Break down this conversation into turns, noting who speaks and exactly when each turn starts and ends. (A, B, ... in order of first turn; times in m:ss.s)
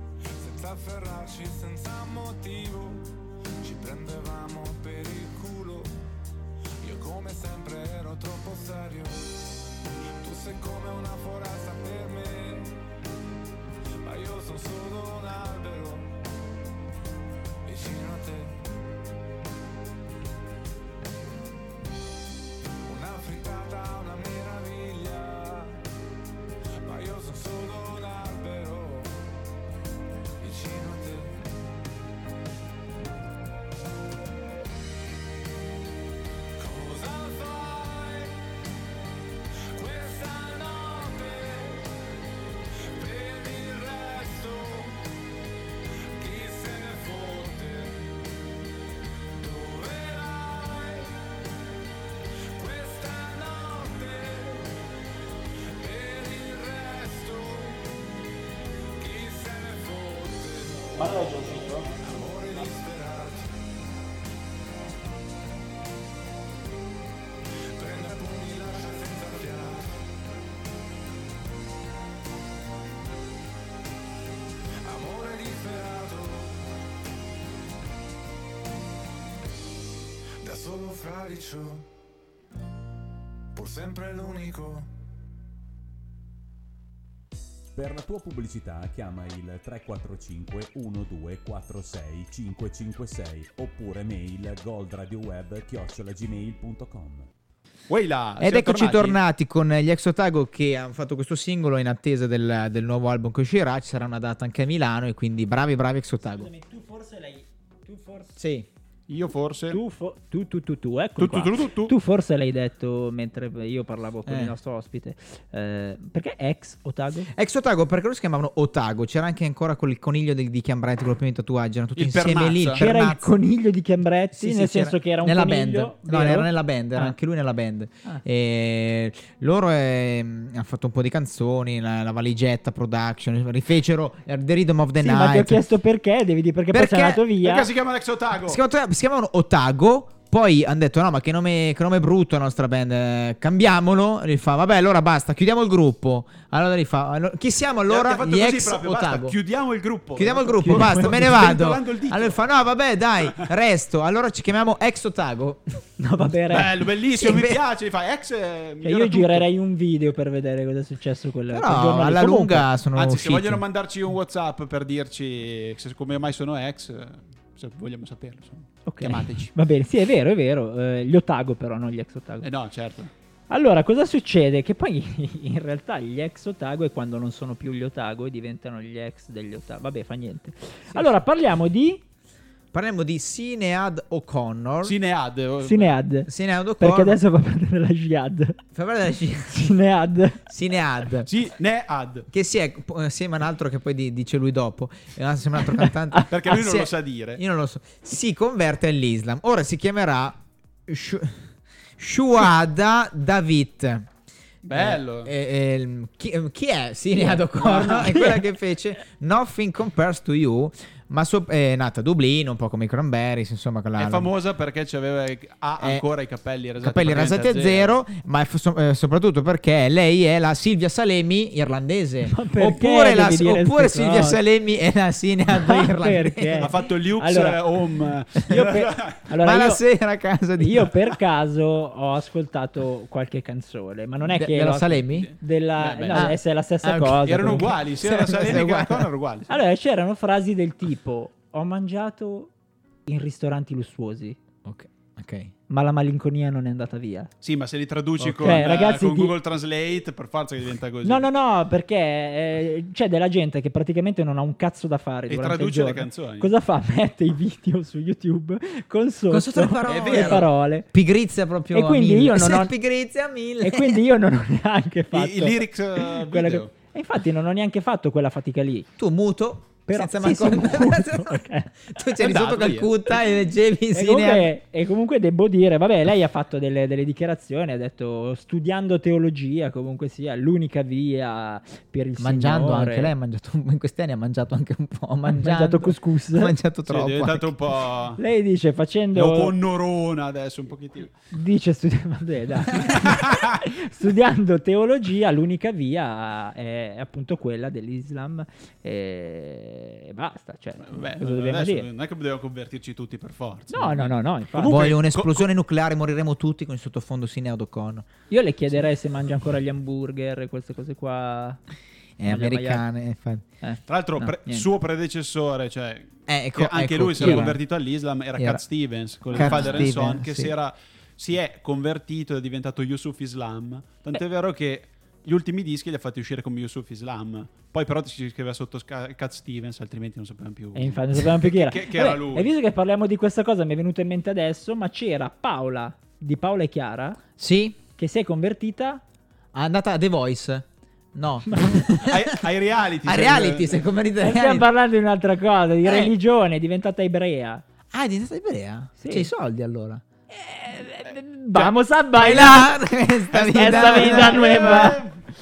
0:00.4-0:06.0 A
0:06.8-0:09.3 A
0:10.2-0:12.8 A
0:14.0-0:16.1 A
0:17.6-0:18.6 A
0:22.8-0:25.8 A
0:26.8-0:29.3 A
0:30.4-0:31.4 A
0:36.6-0:38.4 A
0:39.7-0:41.9 A
0:42.8-0:45.0 A
0:46.2-0:48.1 A
0:49.4-0:51.2 A
0:52.5-0:54.8 A
0:55.7-0:57.8 A
0:59.0-1:01.3 A
1:00.9-1:01.9 B
1:02.0-1:03.5 A
1:07.7-1:10.0 A
1:14.8-1:16.6 A
1:20.4-1:21.9 A
1:23.5-1:24.9 A
1:27.7-1:37.3 C
1:37.9-1:39.2 B
1:38.4-1:46.5 D
1:46.4-1:48.4 E
1:48.4-1:48.7 D
1:49.1-1:49.8 B
1:49.7-1:57.3 E
1:51.2-1:51.9 B
1:54.2-1:54.5 D
1:57.3-2:03.3 D
2:02.0-2:02.8 B
2:02.7-2:07.1 E
2:04.3-2:15.6 D
2:15.0-2:17.7 E
2:16.7-2:17.2 D
2:17.4-2:18.6 B
2:18.4-2:29.4 D
2:27.9-2:32.4 B
2:30.2-2:35.8 D
2:30.6-2:31.1 E
2:36.0-2:36.7 E
2:36.5-2:39.5 B
2:37.1-2:37.6 D
2:38.8-2:42.7 E
2:41.5-2:43.6 D
2:42.9-2:49.5 B
2:48.8-2:52.5 E
2:52.4-2:53.1 B
2:53.5-3:02.0 E
3:02.7-3:05.0 D
3:04.8-3:05.9 B
3:05.6-3:08.6 E
3:06.2-3:07.2 D
3:08.7-3:09.7 D
3:09.5-3:10.4 E
3:10.4-3:11.3 D
3:11.3-3:12.3 B
3:12.3-3:24.1 D
3:15.8-3:16.2 E
3:16.3-3:17.4 B
3:24.6-3:25.3 B
3:24.7-3:34.3 D
3:27.2-3:28.4 E
3:27.6-3:28.1 B
3:34.0-3:37.9 B
3:35.8-3:36.0 D
3:36.8-3:46.7 D
3:42.3-3:44.4 E
3:45.5-3:47.6 E
3:46.6-3:49.2 B
3:48.4-3:49.8 E
3:49.3-3:50.9 D
3:50.6-3:57.8 E
3:54.2-3:55.3 D
3:55.1-3:56.3 B
3:56.1-3:59.1 D
3:57.2-3:59.5 B
3:59.5-4:02.5 E
4:03.1-4:04.4 E
4:04.6-4:05.5 D
4:05.7-4:07.3 E
4:07.4-4:11.3 B
4:08.2-4:09.3 E
4:11.0-4:20.9 E
4:15.3-4:16.5 B
4:19.3-4:24.0 D
4:19.8-4:20.5 B
4:21.7-4:22.7 E
4:23.6-4:28.9 E
4:25.1-4:26.7 B
4:29.0-4:34.5 D
4:29.9-4:31.8 E
4:32.2-4:32.9 B
4:33.9-4:43.1 E
4:42.2-4:47.5 D
4:45.2-4:46.5 E
4:46.8-4:48.2 B
4:48.2-4:49.5 E
4:49.1-4:51.1 B
4:51.3-5:01.9 E
4:52.8-4:53.6 B
5:00.8-5:05.5 B
5:03.7-5:04.9 E
5:04.6-5:08.1 D
5:08.3-5:11.6 E
5:12.2-5:13.4 D
5:12.2-5:12.8 E
5:13.6-5:14.7 E
5:13.9-5:32.5 B
5:16.3-5:17.6 D
5:17.2-5:17.5 E
5:18.4-5:18.6 D
5:19.3-5:20.5 D
5:19.3-5:19.9 E
5:30.7-5:37.2 E
5:37.4-5:37.8 D
5:38.0-5:39.0 E
5:39.5-5:42.4 D
5:41.5-5:41.9 E
5:42.0-5:43.8 B
5:43.0-5:44.7 D
5:44.2-5:47.6 E
5:45.8-5:46.1 D
5:47.9-5:50.0 D
5:49.0-5:49.3 E
5:50.3-5:52.8 E
5:52.1-5:55.0 D
5:53.3-5:55.1 E
5:53.3-5:55.2 B